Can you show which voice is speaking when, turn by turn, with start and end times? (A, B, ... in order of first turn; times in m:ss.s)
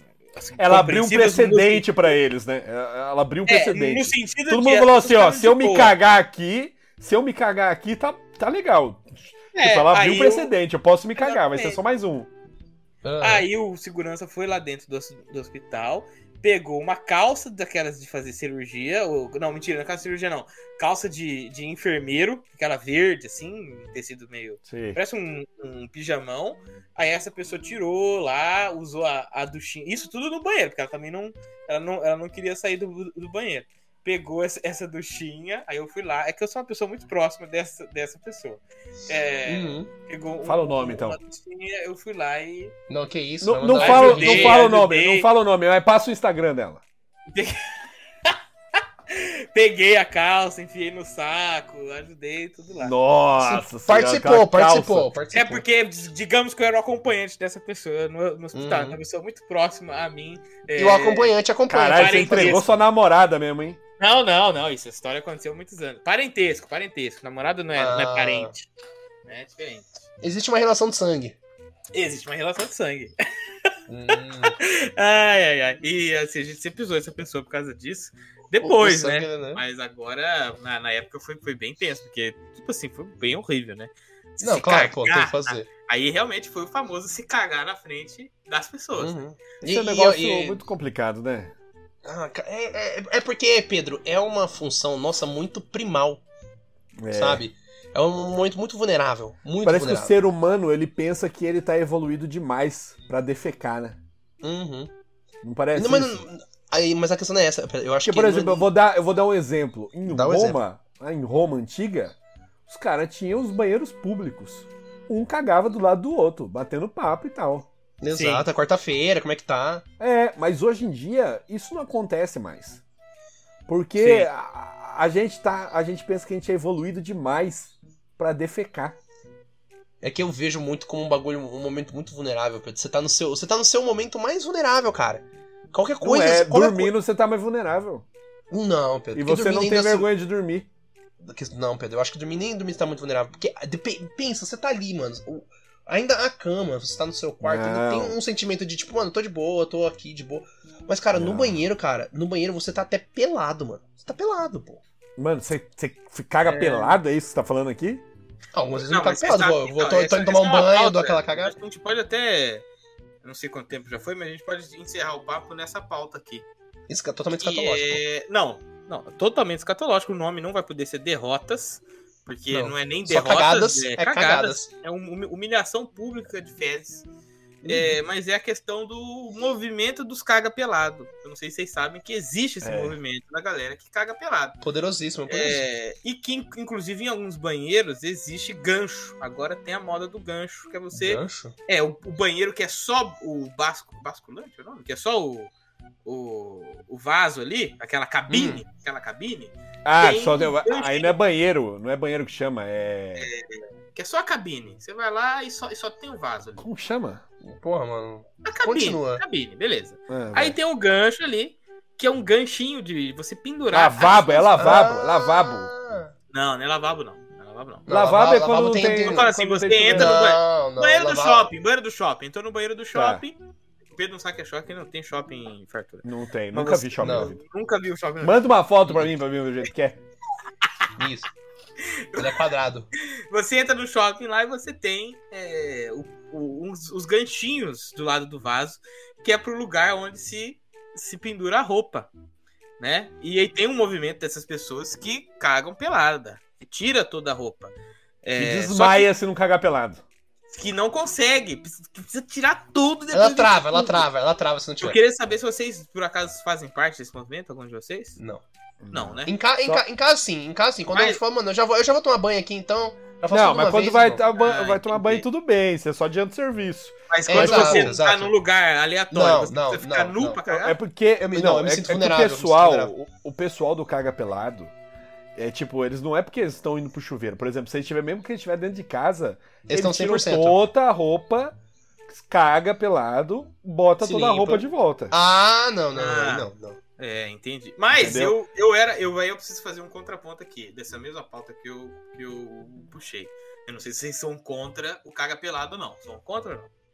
0:00.3-0:02.1 A
0:00.6-0:12.3 B
0:03.5-0:06.0 A
0:09.5-0:10.5 A
0:11.2-0:11.8 A
0:13.0-0:13.4 C
0:13.2-0:42.7 A
0:24.7-0:25.0 B
0:39.4-0:39.9 C
0:40.4-0:41.2 B
0:42.9-0:44.6 C
0:43.4-0:46.8 B
0:43.8-0:45.3 A
0:47.3-0:47.6 A
0:49.1-0:52.9 A
0:52.8-0:55.1 B
0:53.4-0:55.6 C
0:55.3-1:01.3 A
0:58.5-0:59.0 C
1:00.8-1:02.7 C
1:01.7-1:03.8 B
1:01.9-1:02.7 A
1:04.0-1:08.7 A
1:07.7-1:08.5 C
1:09.2-1:09.9 A
1:10.2-1:11.3 C
1:11.9-1:13.1 A
1:13.9-1:14.6 C
1:14.4-1:29.2 A
1:18.6-1:19.6 C
1:24.4-1:25.7 C
1:28.9-1:30.6 C
1:29.6-1:31.5 B
1:32.0-1:36.2 C
1:37.0-1:37.4 B
1:37.1-1:40.1 C
1:39.6-1:44.0 B
1:44.4-1:44.9 C
1:45.4-1:46.2 B
1:45.7-1:48.6 C
1:48.0-1:52.1 B
1:50.1-1:50.6 C
1:52.7-1:57.6 B
1:58.0-1:59.8 C
1:58.1-1:58.5 A
2:00.0-2:02.8 B
2:03.7-2:09.0 B
2:04.0-2:04.3 A
2:10.0-2:16.9 C
2:16.0-2:18.0 B
2:18.5-2:20.1 C
2:19.1-2:20.7 B
2:21.2-2:34.8 C
2:27.4-2:28.1 B
2:31.1-2:31.6 B
2:35.2-2:38.0 B
2:36.4-2:37.0 A
2:38.5-2:41.5 C
2:38.9-2:42.6 A
2:43.2-2:46.4 A
2:46.9-2:48.0 C
2:47.4-2:57.0 A
2:52.5-2:54.7 C
2:57.6-2:58.0 C
2:57.7-3:04.6 A
3:02.6-3:03.0 B
3:04.6-3:05.6 C
3:05.3-3:15.5 A
3:10.9-3:11.5 C
3:16.0-3:21.2 A
3:18.3-3:18.6 C
3:19.8-3:23.3 B
3:23.2-3:26.6 A
3:26.6-3:27.2 B
3:27.4-3:29.2 C
3:28.4-3:34.7 A
3:30.1-3:30.6 B
3:33.7-3:35.7 B
3:34.2-3:36.1 C
3:36.3-3:37.9 A
3:37.9-3:39.3 C
3:37.9-3:40.1 B
3:39.0-3:43.4 A
3:39.9-3:41.5 C
3:42.9-3:43.2 B
3:43.9-3:48.4 A
3:46.0-3:47.4 B
3:47.0-3:47.3 C
3:48.2-3:50.0 B
3:51.0-3:51.3 C
3:51.9-3:52.4 A
3:52.2-3:52.9 C
3:53.3-4:02.1 A
4:02.8-4:09.1 A
4:08.4-4:10.0 B
4:10.5-4:14.0 A
4:13.1-4:15.0 C
4:14.8-4:18.2 A
4:18.2-4:18.4 C
4:18.8-4:19.8 B
4:18.9-4:19.3 A
4:19.3-4:24.2 C
4:20.9-4:21.2 A
4:23.3-4:27.9 B
4:24.4-4:25.2 A
4:27.1-4:30.8 A
4:27.3-4:28.3 C
4:29.1-4:30.4 C
4:30.5-4:34.7 B
4:31.2-4:32.9 C
4:35.3-4:41.5 B
4:39.6-4:40.6 C
4:42.1-4:45.1 B
4:44.0-4:46.8 C
4:45.9-4:56.7 A
4:47.9-4:48.3 B